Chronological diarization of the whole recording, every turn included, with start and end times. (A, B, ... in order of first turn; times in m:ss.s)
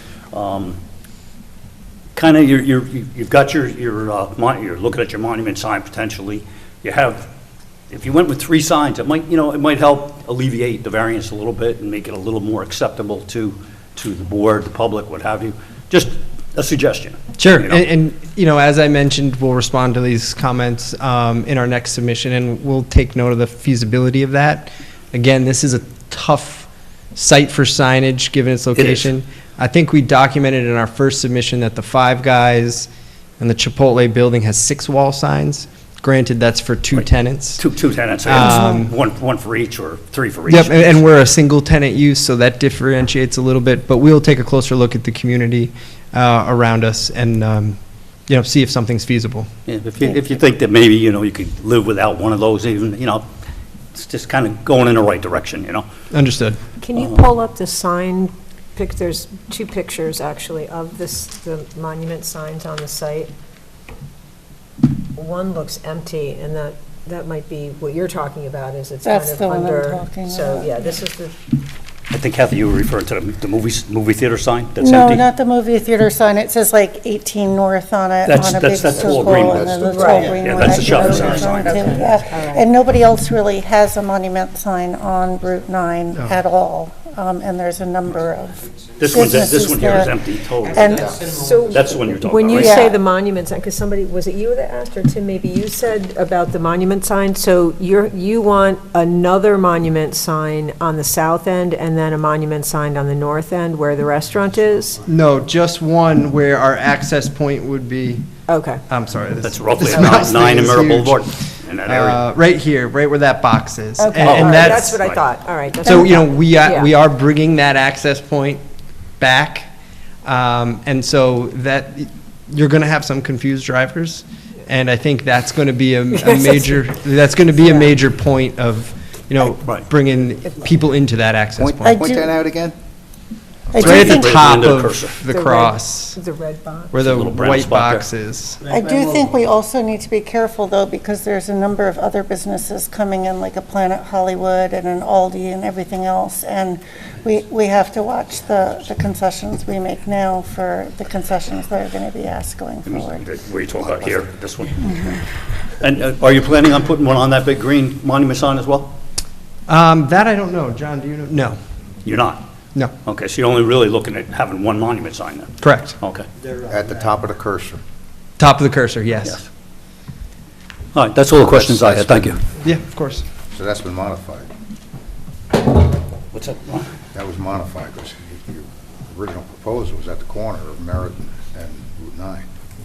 0:00.3-0:00.8 A
0:02.2-0:07.3 A
0:07.9-0:17.9 A
0:17.4-0:37.6 B
0:28.8-0:29.1 A
0:36.9-0:41.0 A
0:38.2-0:39.0 B
0:38.3-0:38.7 C
0:40.5-0:49.5 B
0:49.7-0:53.3 A
0:53.9-0:55.9 A
0:56.1-0:56.6 B
0:56.8-1:03.3 D
1:05.2-1:11.3 D
1:09.0-1:11.0 C
1:12.1-1:15.2 A
1:14.8-1:30.1 C
1:18.2-1:21.9 A
1:19.0-1:20.4 E
1:19.8-1:22.7 D
1:29.0-1:31.1 A
1:30.7-1:31.3 C
1:30.8-1:31.2 E
1:31.2-1:45.0 D
1:31.7-1:32.9 A
1:32.5-1:33.0 C
1:45.0-1:48.2 B
1:48.5-1:48.8 D
1:48.9-1:51.2 B
1:49.4-1:52.2 A
1:51.8-1:55.0 B
1:54.0-1:56.9 D
1:54.2-1:55.2 A
1:55.8-1:58.6 B
1:59.2-1:59.7 B
2:00.2-2:12.1 B
2:06.1-2:06.7 D
2:07.6-2:07.9 D
2:11.6-2:12.8 E
2:11.8-2:12.3 C
2:13.7-2:14.3 C
2:13.8-2:16.2 B
2:13.8-2:15.2 A
2:15.3-2:17.0 D
2:16.9-2:18.6 B
2:17.0-2:18.1 A
2:18.7-2:33.2 C
2:32.8-2:34.9 A
2:34.8-2:35.2 C
2:35.8-2:38.9 A
2:39.7-2:41.6 B
2:42.0-2:42.4 A
2:43.0-2:46.2 A
2:45.6-2:46.0 B
2:46.7-2:47.8 E
2:48.4-2:49.4 B
2:50.9-2:52.4 A
2:51.3-2:52.4 E
2:52.6-2:53.2 B
2:53.5-2:54.5 E
2:56.3-2:56.9 A
2:57.1-3:02.4 E